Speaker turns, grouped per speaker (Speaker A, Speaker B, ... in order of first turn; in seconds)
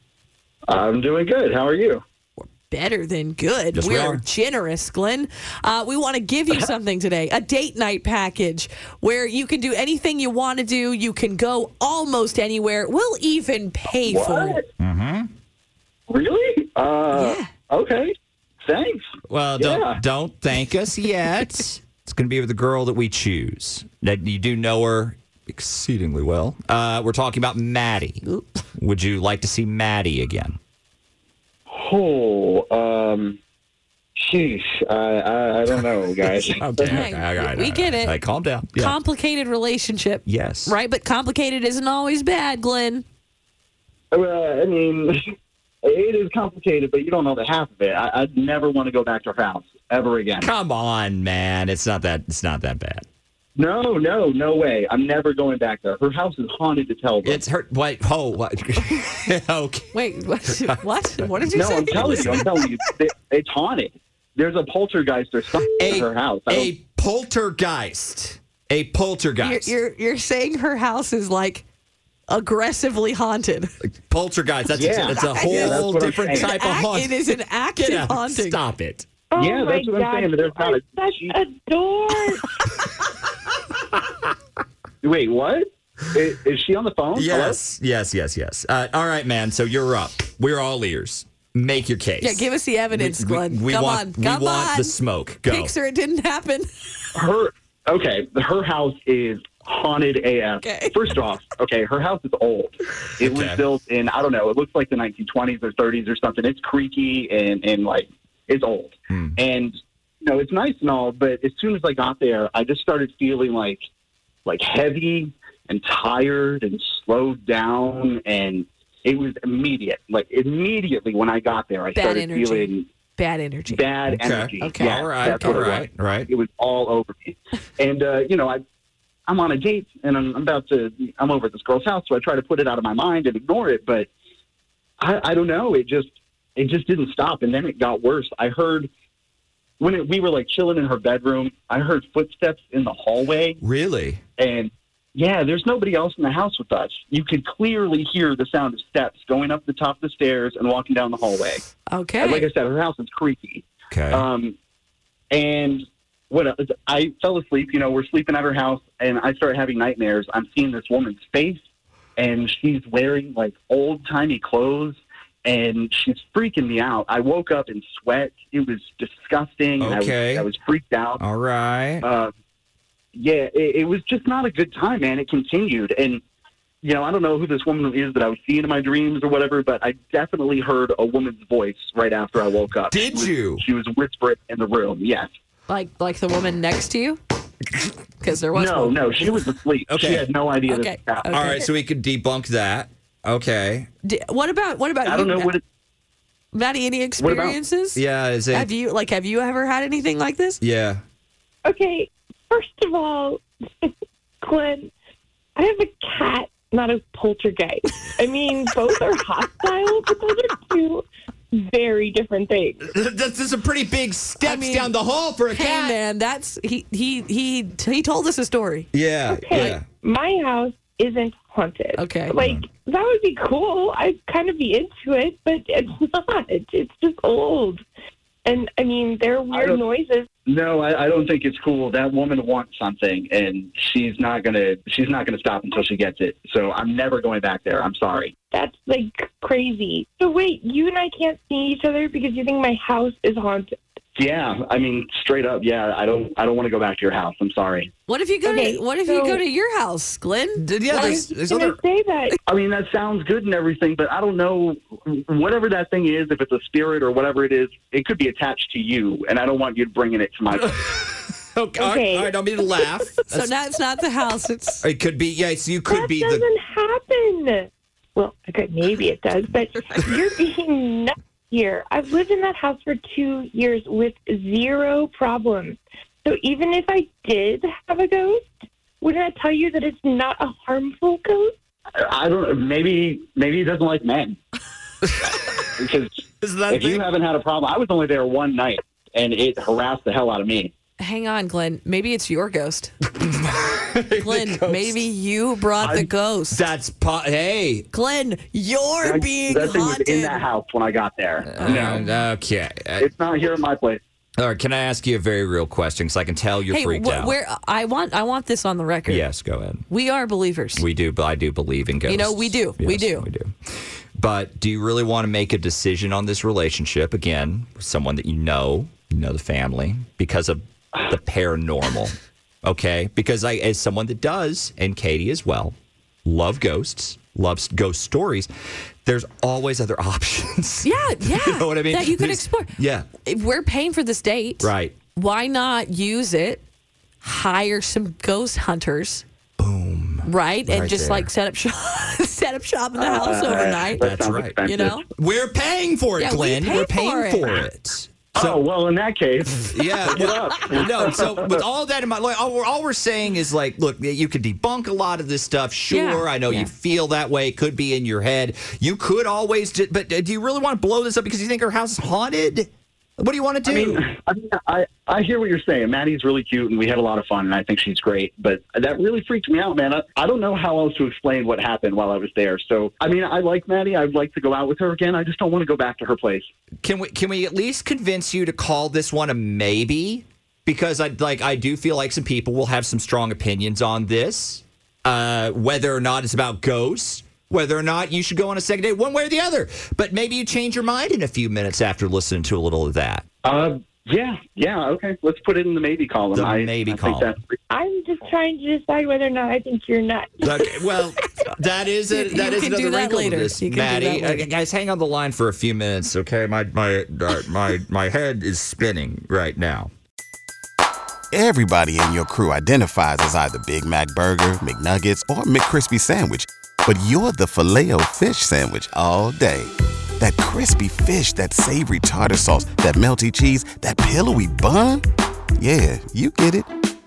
Speaker A: 0.7-2.0, 14.0-14.6, 16.1-19.0, 19.6-20.0, 31.7-33.4, 34.2-37.1, 44.1-45.2, 45.8-50.5, 53.5-57.4, 61.5-66.7, 74.7-76.5, 79.4-81.3, 85.0-87.6, 97.2-113.8, 114.5-122.9, 123.7-128.6, 129.3-134.1, 135.0-138.9, 139.8-143.6, 144.4-151.6, 152.2-154.6, 155.3-161.6, 162.2-171.2, 172.0-172.3, 173.1-176.2, 176.8-185.3, 188.5-191.6, 195.0-195.6, 197.2-197.6, 229.5-229.8, 230.4-238.3, 244.2-247.9, 252.5-260.8, 282.0-284.4, 285.3-290.7, 295.8-296.1, 299.0-302.2, 303.0-304.0, 342.9-345.0, 348.4-351.6, 363.6-376.5, 393.4-397.6
Speaker B: 2.4-14.6, 17.1-17.5, 28.2-28.6, 36.9-38.2, 38.7-43.0, 59.9-62.9, 69.4-71.6, 72.3-73.7, 75.1-78.6, 92.2-96.7, 100.6-101.0, 121.9-123.8, 124.6-125.6, 151.9-152.5, 185.7-187.2, 188.2-189.5, 190.7-191.7, 194.0-195.5, 196.5-198.0, 198.5-200.6, 214.4-214.9, 215.5-218.9, 221.9-222.3, 248.1-251.2, 263.3-264.8, 291.0-292.9, 294.2-296.6, 297.9-300.4, 301.6-302.2, 306.7-309.3, 309.9-310.8, 312.1-313.3, 330.8-332.7, 333.2-336.6, 337.2-339.2, 340.2-344.1, 344.6-345.0, 346.1-347.6, 355.9-356.7, 402.1-404.5
Speaker C: 3.7-4.2, 14.8-15.3, 19.3-28.2, 28.8-30.6, 35.7-39.0, 40.2-40.8, 50.4-53.0, 57.2-62.5, 65.8-69.7, 73.8-79.0, 87.1-95.7, 103.2-103.6, 109.1-109.4, 124.0-126.3, 143.6-144.2, 153.9-154.2, 169.8-170.5, 171.2-172.1, 182.9-183.6, 189.9-190.3, 191.3-193.9, 197.9-198.7, 200.6-201.0, 212.9-216.0, 218.9-219.8, 222.3-222.6, 250.6-251.8, 260.5-263.5, 264.8-266.4, 286.4-287.1, 293.1-295.0, 296.5-297.9, 301.4-303.1, 304.4-307.3, 309.1-309.9, 310.8-313.5, 314.2-325.7, 326.2-328.5, 329.0-333.1, 334.6-335.0, 339.6-341.3, 344.1-348.6, 349.7-364.1, 376.8-393.2, 396.3-397.3, 400.4-409.9
Speaker D: 79.3-82.5, 201.6-204.9, 205.6-212.9, 219.3-227.8, 228.4-230.3, 238.5-243.8, 248.4-249.4, 250.9-252.4, 261.8-262.8, 265.9-278.5, 279.0-281.5, 397.7-400.8
Speaker E: 411.3-425.0, 425.6-426.7